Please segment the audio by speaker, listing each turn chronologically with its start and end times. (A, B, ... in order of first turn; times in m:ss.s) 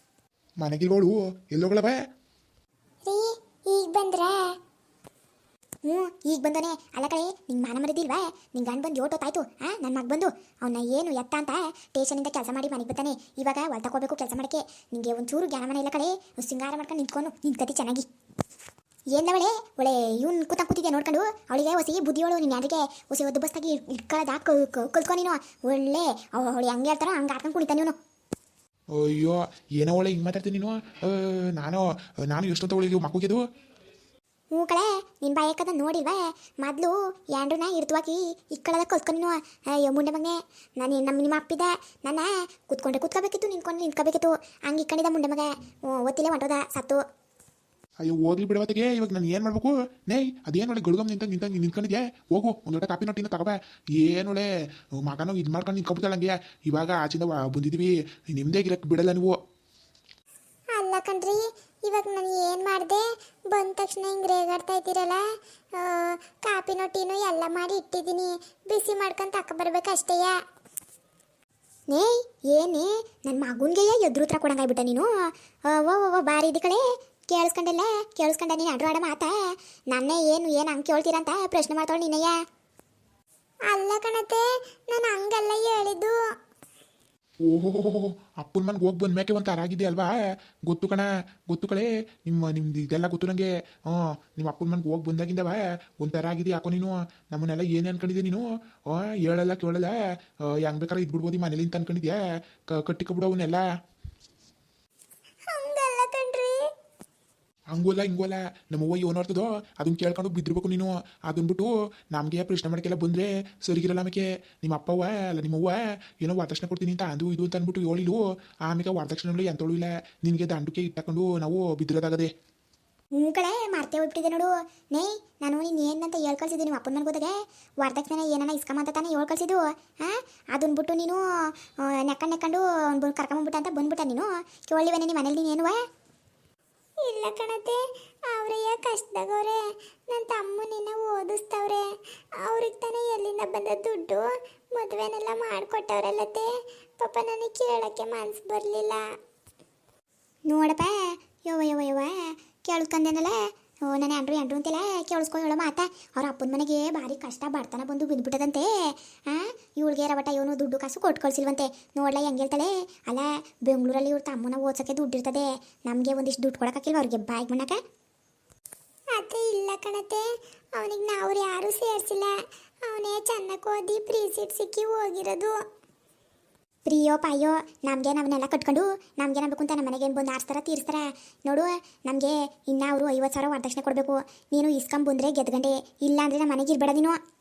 0:00.6-0:01.9 A
0:03.1-0:04.4 B
0:05.8-0:18.0 B
0:19.1-0:28.0 B
0:28.9-0:33.4 A
0:34.5-0:47.0 B
0:48.0-0:54.4 A
0:55.0-0:59.4 A
1:00.7-1:05.2 B
1:05.8-1:10.3 B
1:11.9-1:22.3 B
1:23.7-1:26.2 B
1:27.5-1:30.1 A
1:30.6-1:39.9 A
1:40.5-1:42.2 A
1:42.7-1:43.6 A
1:45.5-1:46.6 B
1:47.7-2:02.3 A
2:03.2-2:11.2 B
2:11.8-2:15.8 B
2:17.0-2:17.8 B
2:18.3-2:21.8 B
2:22.4-2:26.5 B
2:27.0-2:29.0 B
2:30.5-2:47.8 B
2:49.2-2:50.2 B
2:50.8-2:52.3 B
2:52.9-2:55.5 B
2:56.9-3:07.2 B